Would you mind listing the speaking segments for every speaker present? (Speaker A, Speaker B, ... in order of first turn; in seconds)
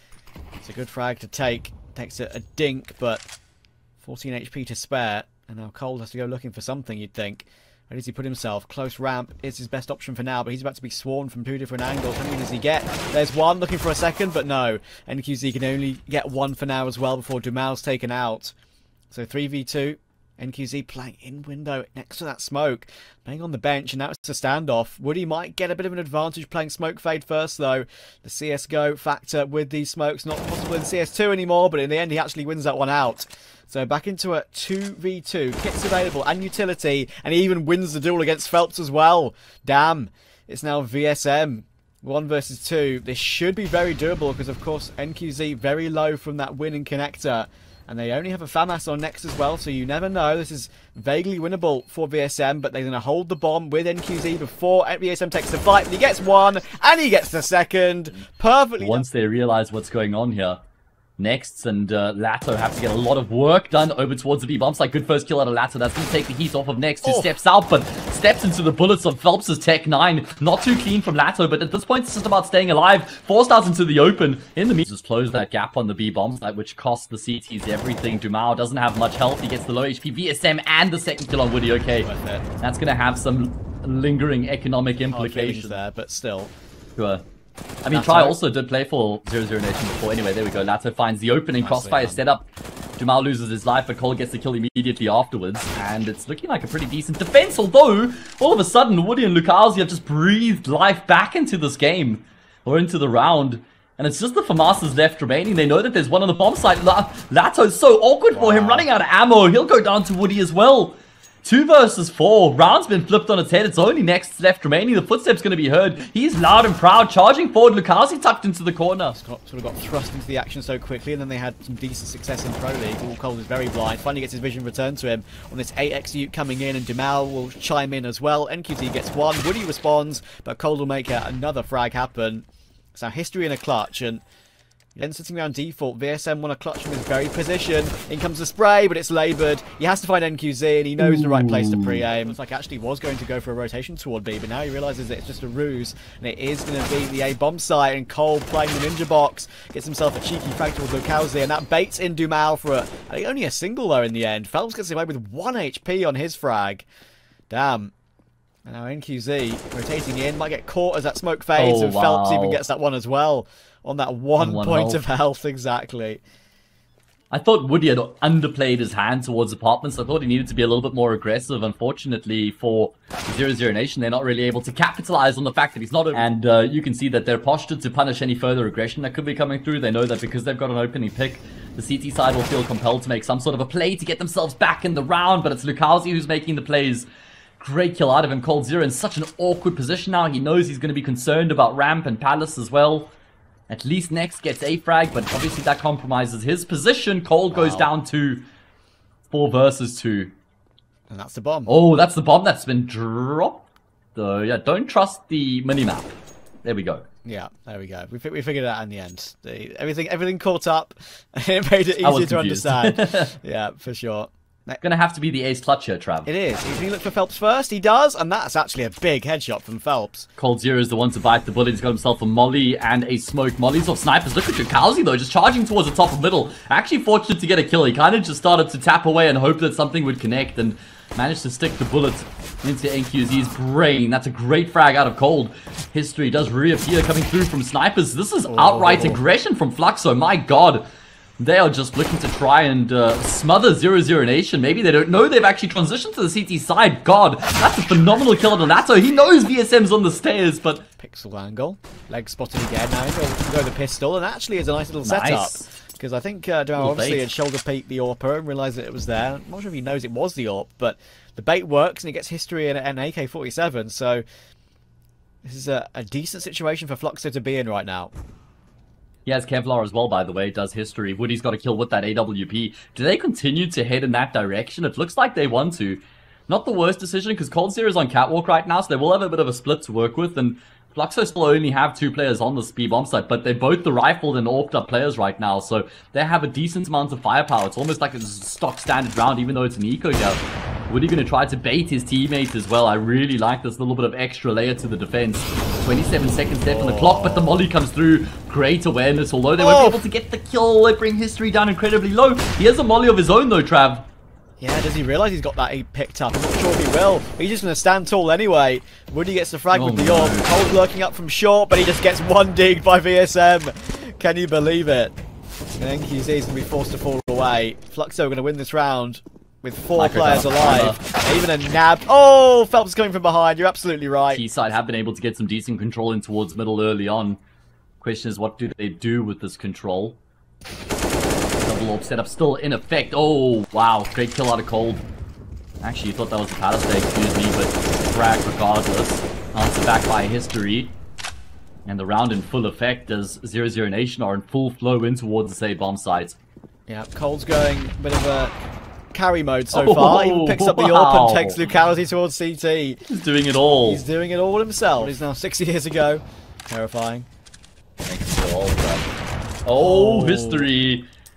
Speaker A: 0.6-3.2, 4.0-18.5, 19.1-59.0, 67.0-67.3, 82.0-82.5, 85.0-86.5, 87.9-88.4, 91.6-92.2, 108.3-108.9, 119.1-134.2, 134.9-156.9, 157.5-157.9, 158.6-166.2, 197.5-197.9, 201.1-201.7, 207.2-214.8, 216.2-220.3, 238.5-239.2, 251.0-264.2, 265.4-268.1, 296.6-297.6, 299.6-300.0, 304.6-315.2, 315.8-324.4, 346.9-348.6, 349.1-353.0, 353.8-357.3, 359.8-360.7
Speaker B: 58.8-60.6, 61.2-85.8, 87.0-87.2, 87.8-92.5, 93.0-119.2, 141.0-142.0, 161.6-162.6, 164.4-165.0, 167.3-187.1, 187.6-193.1, 193.7-198.4, 199.3-200.3, 201.7-203.6, 204.1-207.1, 212.0-213.3, 214.8-216.3, 220.4-240.8, 241.4-250.9, 255.0-255.7, 256.8-257.3, 269.2-304.1, 309.7-310.5, 319.9-321.0, 324.3-327.4, 328.0-330.2, 331.6-335.0, 335.8-341.0, 341.9-346.4, 349.7-351.6, 353.1-354.0, 358.1-359.1, 359.6-361.1